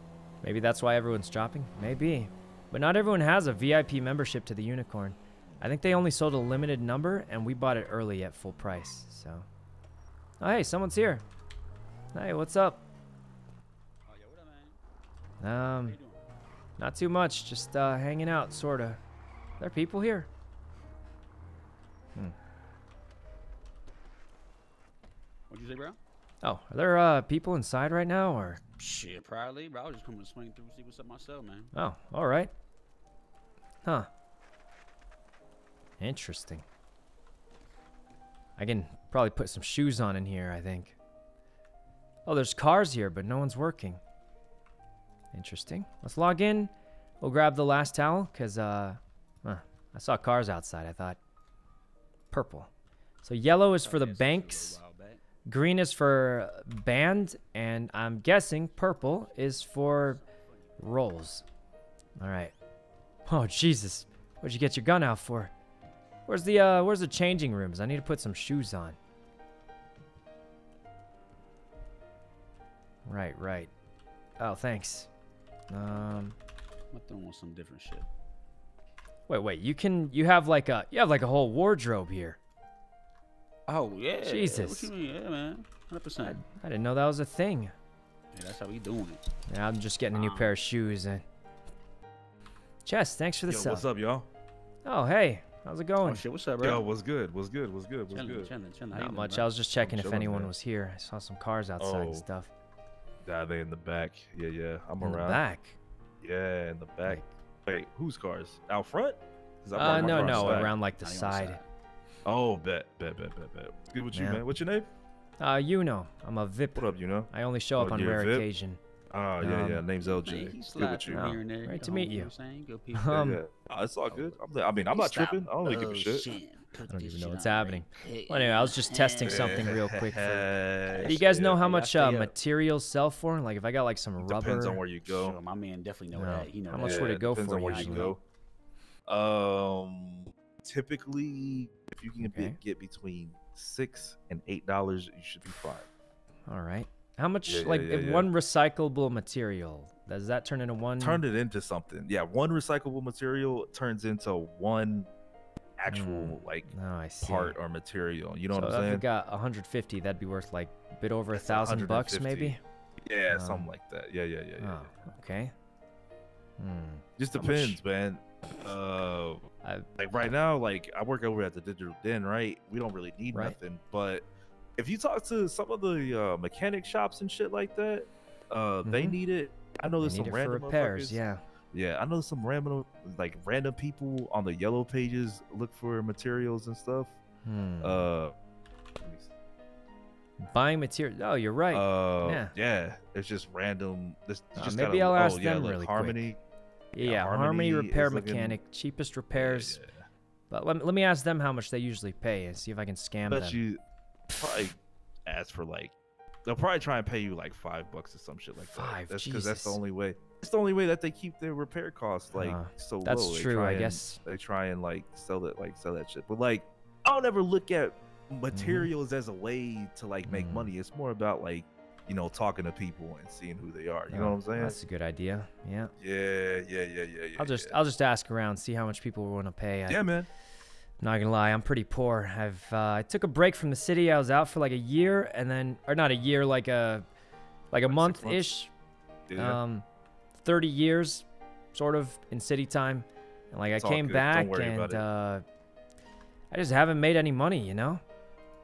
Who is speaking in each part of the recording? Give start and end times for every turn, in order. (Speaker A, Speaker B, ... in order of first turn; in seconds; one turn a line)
Speaker A: 0.4-9.4
Speaker A: 10.4-11.2
Speaker A: 12.1-12.8
Speaker B: 14.1-14.8
Speaker A: 15.4-16.0
Speaker B: 15.4-16.2
Speaker A: 16.8-19.0
Speaker A: 19.6-20.3
Speaker B: 25.5-26.0
Speaker A: 26.4-28.6
Speaker B: 28.8-31.7
Speaker A: 31.7-32.5
Speaker A: 36.0-36.6
Speaker A: 38.6-40.9
Speaker A: 42.2-44.0
Speaker A: 45.3-51.2
Speaker A: 52.3-52.7
Speaker A: 53.2-54.8
Speaker B: 53.8-55.2
Speaker A: 55.5-60.2
Speaker B: 59.2-61.0
Speaker A: 60.8-61.4
Speaker A: 62.2-62.5
Speaker A: 63.3-65.5
Speaker A: 66.3-69.0
Speaker A: 73.0-73.7
Speaker A: 74.4-75.1
Speaker A: 75.7-76.3
Speaker B: 76.9-78.1
Speaker A: 79.3-82.4
Speaker B: 83.7-86.4
Speaker A: 84.2-84.9
Speaker A: 86.2-87.7
Speaker B: 88.3-89.2
Speaker A: 89.5-91.2
Speaker B: 90.1-90.5
Speaker A: 92.8-93.8
Speaker C: 93.5-94.3
Speaker A: 94.8-96.2
Speaker B: 96.0-96.8
Speaker C: 96.6-98.5
Speaker B: 98.1-99.5
Speaker A: 98.9-102.5
Speaker C: 99.8-100.5
Speaker C: 101.8-102.2
Speaker C: 103.2-105.4
Speaker A: 105.0-105.8
Speaker C: 106.2-110.7
Speaker A: 109.8-111.6
Speaker B: 109.8-111.7
Speaker C: 112.2-114.9
Speaker A: 114.1-114.4
Speaker A: 115.4-118.8
Speaker C: 116.7-118.4
Speaker C: 119.1-121.2
Speaker A: 119.4-119.8
Speaker B: 120.0-123.2
Speaker A: 121.1-122.3
Speaker A: 122.9-123.4
Speaker C: 123.2-126.3
Speaker B: 124.1-129.7
Speaker A: 126.9-130.5
Speaker C: 129.2-131.6
Speaker B: 130.9-132.3
Speaker A: 131.1-134.8
Speaker C: 134.2-135.4
Speaker B: 135.0-138.2
Speaker A: 136.1-138.1
Speaker C: 136.8-138.2
Speaker C: 139.1-145.9
Speaker A: 142.2-142.6
Speaker A: 146.5-151.2
Speaker C: 147.4-148.3
Speaker C: 151.0-155.1
Speaker C: 155.8-156.7
Speaker A: 155.9-157.6
Speaker C: 157.2-159.1
Speaker A: 158.5-162.6
Speaker C: 161.3-164.9
Speaker A: 163.3-163.7
Speaker A: 164.6-165.5
Speaker A: 166.6-167.8
Speaker C: 167.2-169.4
Speaker C: 170.0-174.2
Speaker C: 174.8-181.2
Speaker A: 178.8-179.2
Speaker A: 179.9-181.4
Speaker C: 181.7-187.2
Speaker A: 187.4-188.1
Speaker C: 187.8-188.3
Speaker C: 189.0-189.3
Speaker A: 190.4-192.5
Speaker C: 191.7-196.4
Speaker A: 194.6-196.2
Speaker A: 196.9-199.8
Speaker C: 197.0-198.6
Speaker C: 199.3-200.1
Speaker A: 200.5-203.6
Speaker C: 203.3-203.8
Speaker C: 204.3-205.9
Speaker C: 206.4-224.8
Speaker A: 208.7-209.8
Speaker A: 212.3-214.2
Speaker A: 218.5-218.9
Speaker A: 220.2-220.7
Speaker A: 224.1-225.9
Speaker C: 226.0-227.7
Speaker A: 227.3-230.1
Speaker C: 229.9-230.3
Speaker A: 231.0-237.1
Speaker A: 237.7-238.7
Speaker C: 237.8-238.5
Speaker C: 239.3-239.6
Speaker A: 239.3-239.8
Speaker A: 240.4-245.4
Speaker C: 243.8-245.1
Speaker A: 246.5-248.0